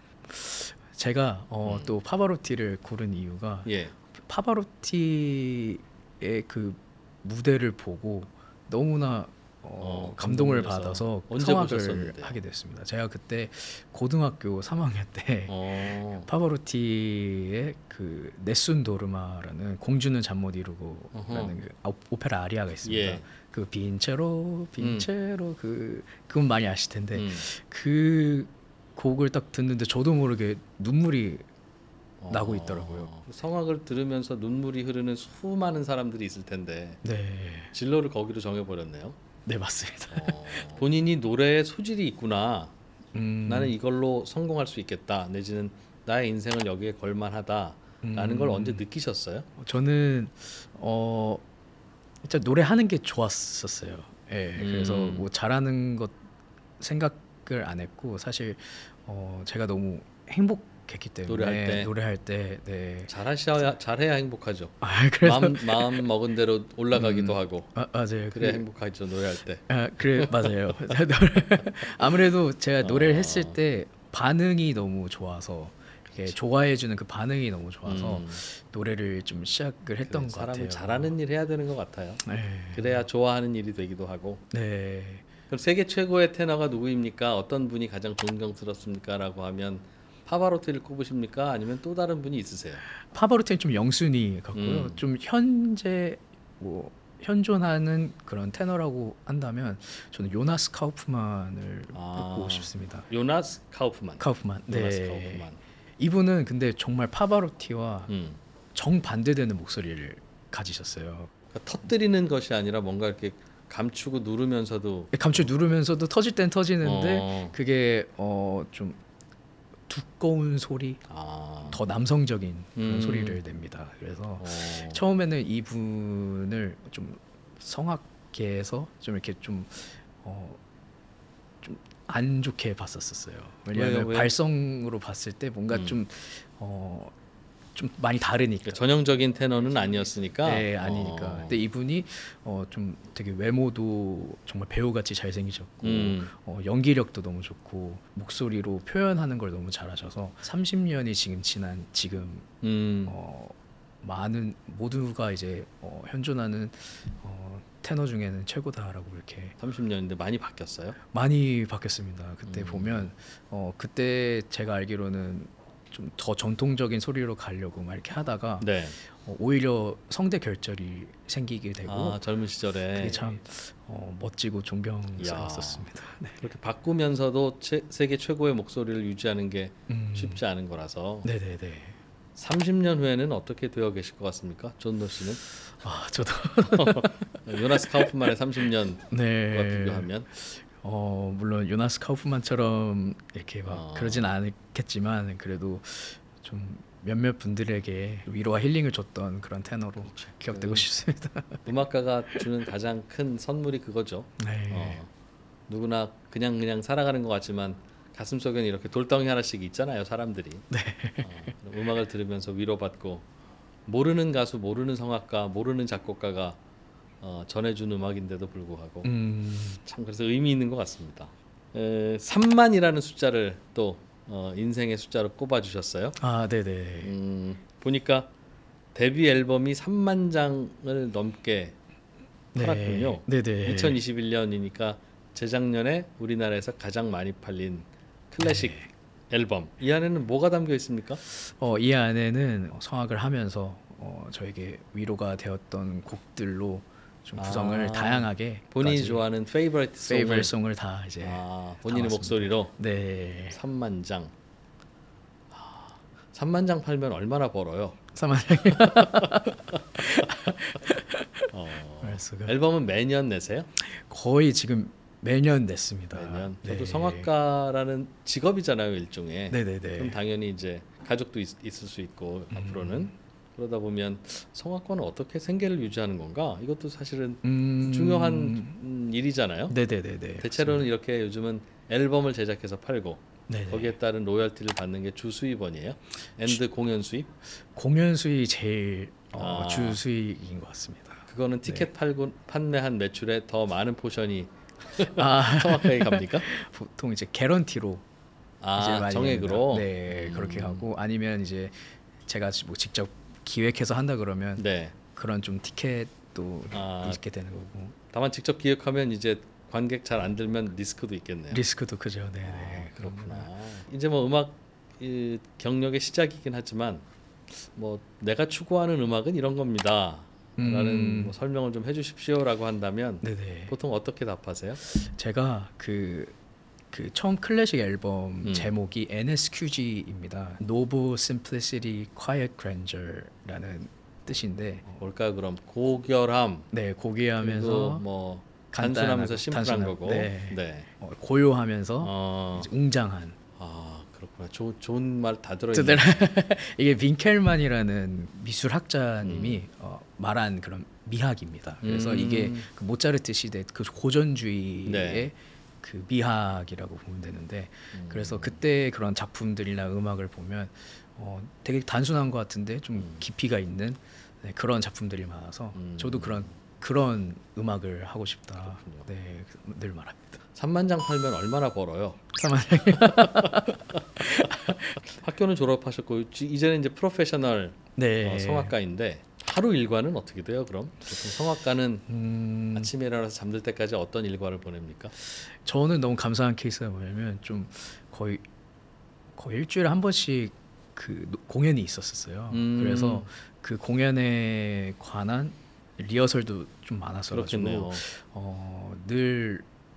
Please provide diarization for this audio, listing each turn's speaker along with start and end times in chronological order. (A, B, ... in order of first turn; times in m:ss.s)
0:00.3-0:15.6 A
0:01.6-0:01.9 B
0:03.7-0:03.9 B
0:09.8-0:12.4 B
0:15.5-0:16.3 B
0:16.2-0:31.5 A
0:21.1-0:21.6 B
0:22.8-0:23.3 B
0:24.8-0:25.1 B
0:27.1-0:27.5 B
0:32.2-0:37.0 B
0:32.3-0:33.1 A
0:37.0-0:37.7 A
0:37.7-0:39.2 B
0:39.5-0:40.5 A
0:40.1-0:42.7 B
0:43.1-0:43.7 A
0:43.5-0:49.5 B
0:48.0-0:48.8 A
0:49.6-0:51.4 A
0:52.2-0:56.2 A
0:54.6-0:55.3 B
0:56.8-1:03.1 A
1:01.3-1:01.9 B
1:03.1-1:07.7 B
1:04.8-1:06.0 A
1:06.9-1:08.6 A
1:08.3-1:10.8 B
1:09.7-1:21.1 A
1:12.8-1:13.6 B
1:17.9-1:18.4 B
1:20.0-1:24.4 B
1:22.2-1:23.0 A
1:24.5-1:25.3 A
1:25.5-1:32.8 B
1:33.1-1:43.1 A
1:34.5-1:35.0 B
1:41.9-1:45.6 B
1:44.2-1:45.5 A
1:46.0-1:48.1 A
1:48.1-1:48.4 B
1:48.7-1:51.3 A
1:51.5-1:55.5 B
1:55.1-1:59.0 A
1:56.8-1:57.5 B
1:59.9-2:01.0 A
2:01.1-2:01.8 B
2:01.7-2:10.6 A
2:02.8-2:03.4 B
2:04.4-2:05.0 B
2:11.6-2:17.1 A
2:13.7-2:14.3 B
2:15.7-2:16.0 B
2:17.7-2:18.8 A
2:18.6-2:21.6 B
2:20.4-2:32.5 A
2:25.8-2:26.3 B
2:32.6-2:33.2 B
2:33.1-2:39.6 A
2:39.6-2:41.0 B
2:41.1-2:52.2 A
2:42.5-2:43.1 B
2:48.6-2:49.0 B
2:51.9-2:53.2 B
2:52.9-2:56.4 A
2:55.2-2:55.9 B
2:56.4-3:01.3 B
2:59.9-3:00.4 A
3:01.2-3:02.0 A
3:02.4-3:05.4 B
3:05.8-3:07.2 A
3:06.6-3:10.3 B
3:09.1-3:21.7 A
3:13.7-3:14.3 B
3:20.1-3:20.9 B
3:21.6-3:25.1 B
3:24.4-3:25.0 A
3:25.7-3:30.7 B
3:30.7-3:31.3 A
3:31.2-3:33.3 B
3:33.9-3:36.6 B
3:37.2-3:39.1 B
3:39.0-3:39.8 A
3:39.8-3:46.2 B
3:46.2-3:47.1 A
3:47.0-3:48.3 B
3:49.0-3:51.8 B
3:52.5-3:54.0 A
3:52.6-3:58.8 B
3:58.4-3:58.9 A
3:59.3-4:01.2 B
4:01.3-4:09.2 A
4:07.4-4:10.5 B
4:10.1-4:13.6 A
4:11.2-4:12.7 B
4:13.5-4:14.3 B
4:15.5-4:18.0 B
4:18.1-4:22.6 A
4:18.6-4:20.3 B
4:21.5-4:23.7 B
4:23.8-4:27.3 A
4:26.1-4:39.8 B
4:29.5-4:30.2 A
4:32.5-4:33.1 A
4:37.4-4:38.8 A
4:39.7-4:40.9 A
4:40.4-4:47.3 B
4:43.5-4:44.0 A
4:47.7-4:51.9 A
4:49.4-4:50.0 B
4:51.3-4:56.5 B
4:55.0-4:58.0 A
4:58.6-5:00.9 B
4:58.8-5:01.7 A
5:02.3-5:08.0 A
5:04.6-5:05.0 B
5:06.7-5:07.2 B
5:08.1-5:11.6 B
5:11.5-5:13.5 A
5:12.4-5:17.0 B
5:17.7-5:24.8 B
5:20.6-5:21.4 A
5:23.2-5:23.7 A
5:24.8-5:26.4 A
5:26.9-5:35.0 A
5:28.4-5:28.7 B
5:35.0-5:36.7 B
5:36.7-5:38.0 A
5:37.4-5:40.9 B
5:38.7-5:43.4 A
5:42.0-5:42.7 B
5:43.6-5:46.1 B
5:45.7-6:10.4 A
5:49.2-5:49.6 B
5:51.8-5:52.7 B
5:54.8-5:55.3 B
5:57.9-5:58.6 B
6:05.8-6:06.6 B
6:08.7-6:09.1 B
6:10.6-6:12.2 B
6:12.4-6:15.0 A
6:12.8-6:22.1 B
6:18.0-6:18.7 A
6:22.1-6:22.9 A
6:22.7-6:25.1 B
6:25.4-6:28.4 A
6:29.3-6:39.7 A
6:32.5-6:33.3 B
6:37.3-6:38.0 B